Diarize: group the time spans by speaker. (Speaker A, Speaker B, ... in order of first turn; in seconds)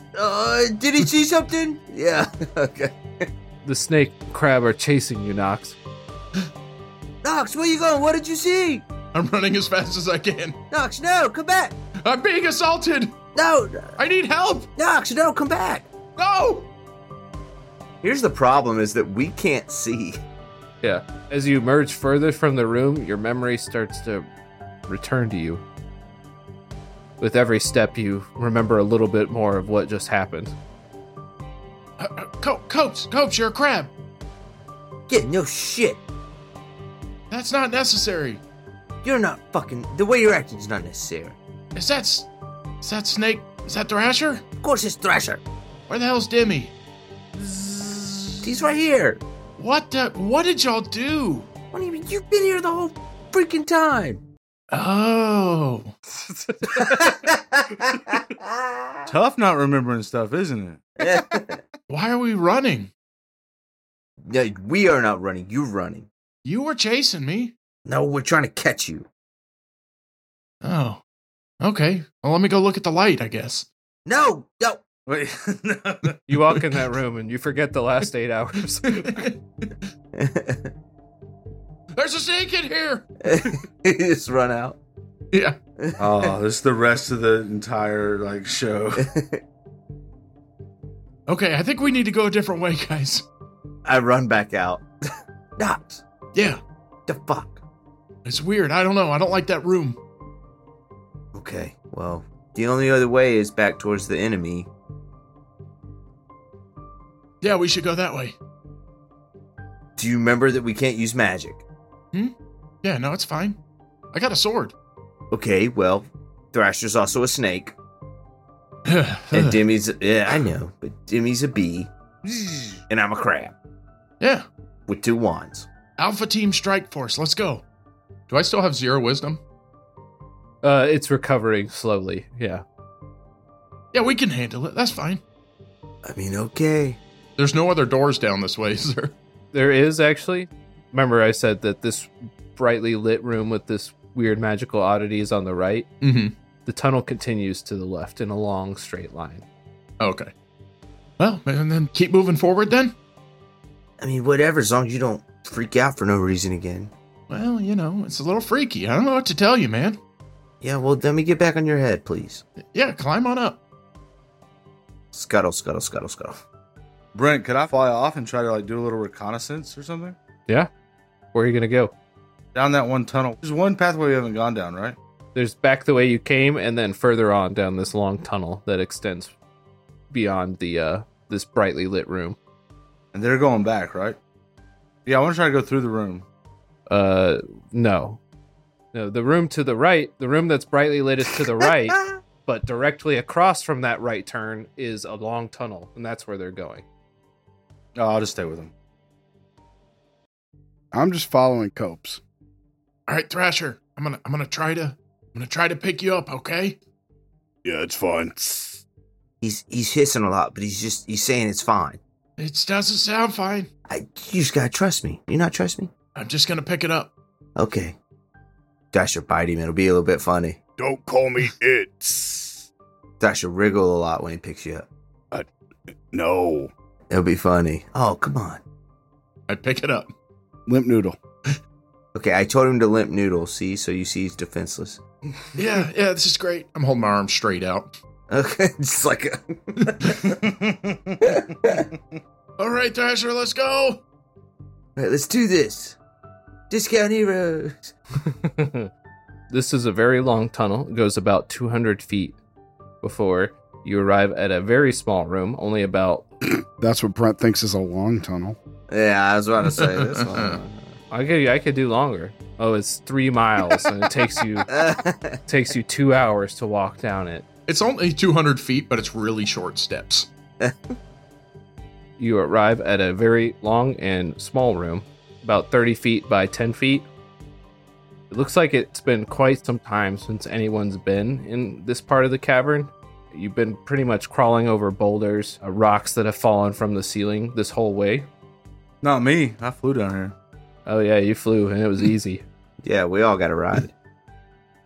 Speaker A: 0.1-3.3, 7.2-8.8, 10.7-11.8, 13.3-13.9, 14.8-15.9, 18.0-20.2, 35.1-36.0, 39.0-41.4, 44.6-45.4, 48.4-49.2, 51.7-54.2, 56.6-59.1, 61.0-61.6, 64.3-66.1, 67.9-69.1, 74.1-74.8, 80.1-80.7, 83.2-84.8, 85.8-86.3, 89.0-89.4, 93.9-94.9, 95.6-96.0, 97.1-97.6, 101.3-104.7, 110.0-111.6, 115.3-117.8, 119.3-121.9, 122.9-123.5, 124.9-125.7, 136.1-137.0, 154.0-156.9, 160.6-162.4, 165.1-166.4, 209.4-212.0, 213.9-215.9, 217.6-218.0, 218.9-220.6, 223.2-224.9, 227.1-228.6, 232.2-235.0, 238.3-240.3, 241.2-241.9, 245.0-246.0, 246.7-247.9, 258.9-260.9, 264.7-265.4, 270.6-270.9, 292.8-293.9
Speaker B: 3.6-5.8, 20.8-24.3, 24.9-25.6, 27.2-30.6, 56.3-56.9, 76.3-79.2, 130.6-132.6, 139.5-145.9, 146.7-149.4, 171.3-171.9, 175.3-179.3, 180.1-182.4, 186.9-188.2, 188.9-196.8, 248.3-248.9, 249.5-252.4, 253.0-256.3, 261.1-264.7, 265.5-267.5, 272.2-277.1, 278.3-288.3, 290.9-292.4
Speaker C: 9.2-10.6, 12.0-13.2, 14.0-14.7, 16.2-16.7, 32.0-33.9, 37.3-38.4, 41.8-42.3, 42.8-44.4, 45.9-46.7, 49.6-51.5, 54.7-55.9, 61.9-62.9, 66.5-67.5, 70.6-71.0, 71.6-73.7, 78.9-79.7, 82.0-83.1, 85.3-85.6, 91.3-93.3, 96.3-96.6, 98.2-100.0, 107.4-108.4, 112.1-113.6, 114.1-114.7, 118.9-119.6, 124.2-124.5, 126.0-127.6, 128.3-129.4, 133.9-135.2, 137.4-139.2, 146.0-146.3, 150.0-150.3, 151.2-152.9, 157.3-160.0, 162.7-163.6, 203.1-206.8, 212.4-213.7, 216.2-217.1, 229.5-230.1, 235.6-237.9, 242.6-244.0, 259.6-260.6, 267.7-270.3
Speaker D: 59.1-60.8, 75.1-76.2, 86.0-89.1, 122.3-122.8, 167.1-170.2, 172.6-175.0, 183.1-184.2, 185.1-186.3, 198.0-198.7, 240.3-241.2, 289.0-290.4
Speaker E: 200.9-202.2, 230.7-231.2, 256.8-258.6
Speaker F: 207.6-208.8, 220.8-222.7, 226.1-226.7